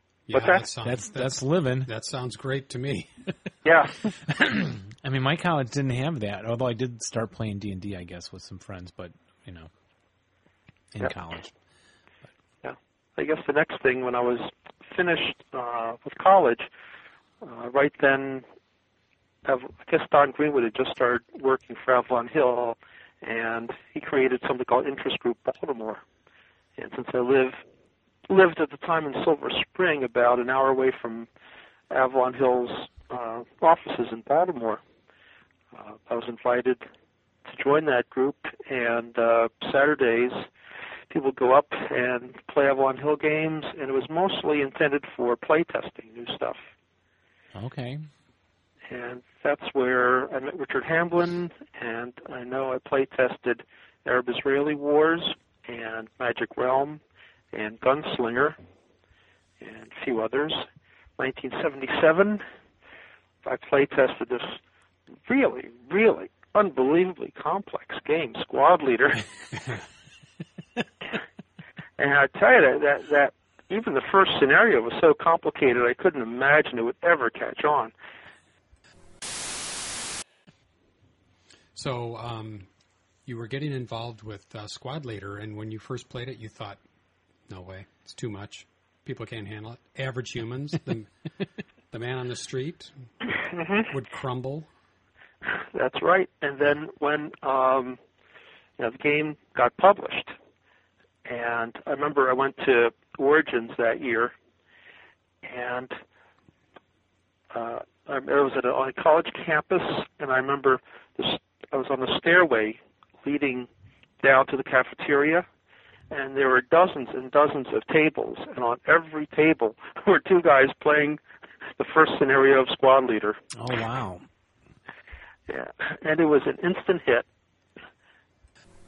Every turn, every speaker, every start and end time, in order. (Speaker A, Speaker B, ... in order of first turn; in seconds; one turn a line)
Speaker A: 0.3-3.1
Speaker B: 0.3-0.6
Speaker C: 0.8-1.9
Speaker B: 3.6-4.0
Speaker C: 4.3-9.7
Speaker C: 10.9-11.5
Speaker B: 12.6-16.7
Speaker B: 17.4-18.4
Speaker B: 19.4-26.0
Speaker B: 26.8-27.6
Speaker B: 28.3-31.3
Speaker B: 31.9-34.8
Speaker B: 35.7-36.8
Speaker B: 37.5-40.5
Speaker B: 41.1-46.6
Speaker C: 47.5-48.0
Speaker B: 48.9-57.0
Speaker B: 57.5-58.5
Speaker B: 59.6-60.6
Speaker B: 61.2-62.4
Speaker B: 63.4-64.6
Speaker B: 65.2-69.2
Speaker B: 72.0-77.9
Speaker A: 81.7-82.7
Speaker A: 83.2-86.8
Speaker A: 87.5-91.1
Speaker A: 91.9-92.9
Speaker B: 93.3-93.9
Speaker A: 93.9-94.7
Speaker B: 95.7-98.0
Speaker B: 98.8-100.3
Speaker B: 101.2-104.3
Speaker B: 105.4-105.9
Speaker B: 107.5-113.7
Speaker B: 114.2-115.5
Speaker B: 116.1-121.2
Speaker B: 121.8-123.4
Speaker C: 123.5-124.2
Speaker B: 125.5-127.2